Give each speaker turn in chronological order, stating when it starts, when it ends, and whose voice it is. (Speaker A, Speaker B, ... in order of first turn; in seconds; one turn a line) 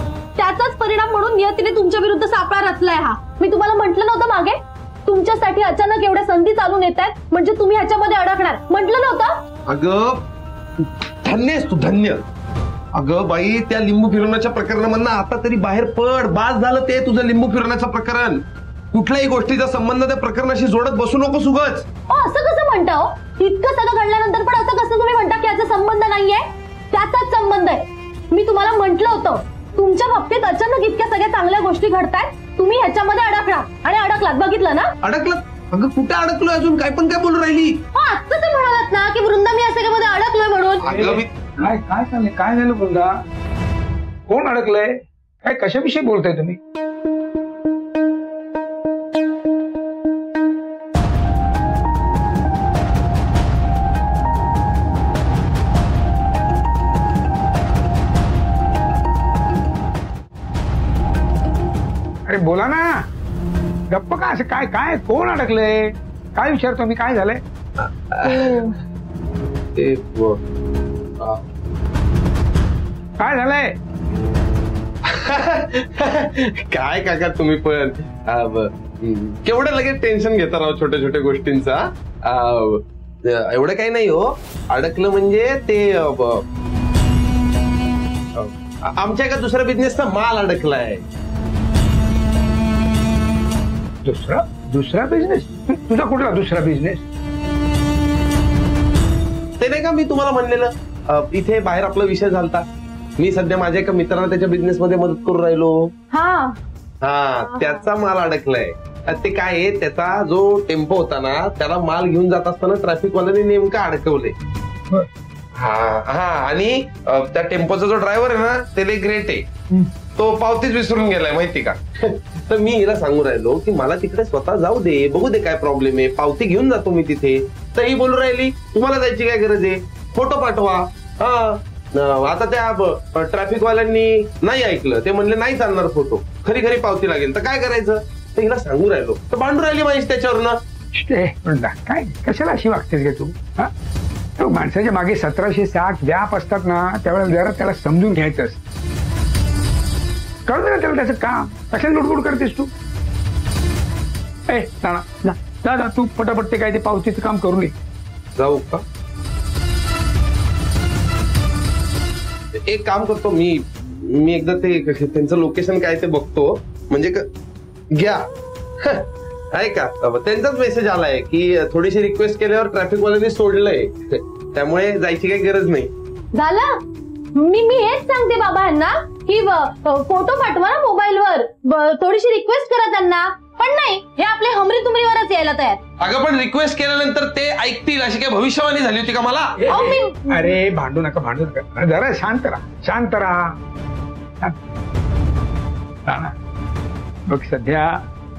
Speaker A: 0.4-9.3
Speaker B: 9.7-10.3
Speaker B: 10.8-12.2
Speaker B: 12.9-21.9
Speaker A: 22.1-34.9
Speaker B: 35.0-37.8
Speaker A: 37.9-40.8
Speaker B: 40.8-41.3
Speaker C: 40.9-43.1
Speaker C: 44.3-46.6
Speaker C: 62.3-63.0
Speaker C: 63.9-67.4
Speaker B: 67.8-68.8
Speaker B: 69.8-70.4
Speaker B: 71.2-71.5
Speaker C: 73.2-73.7
Speaker B: 75.0-86.4
Speaker B: 88.4-91.1
Speaker C: 94.0-97.0
Speaker B: 99.6-102.7
Speaker B: 103.2-105.9
Speaker A: 106.1-106.6
Speaker B: 107.0-114.3
Speaker A: 107.4-107.9
Speaker B: 115.6-119.6
Speaker B: 120.1-140.6
Speaker C: 140.9-143.7
Speaker C: 144.4-148.6
Speaker C: 150.5-152.7
Speaker C: 154.5-157.7
Speaker B: 158.4-158.8
Speaker B: 162.6-167.3
Speaker B: 167.9-168.3
Speaker B: 168.8-175.9
Speaker A: 176.4-176.8
Speaker A: 177.4-185.8
Speaker B: 186.0-189.6
Speaker C: 189.6-193.6
Speaker A: 189.7-190.6
Speaker C: 196.1-196.3
Speaker C: 197.3-198.0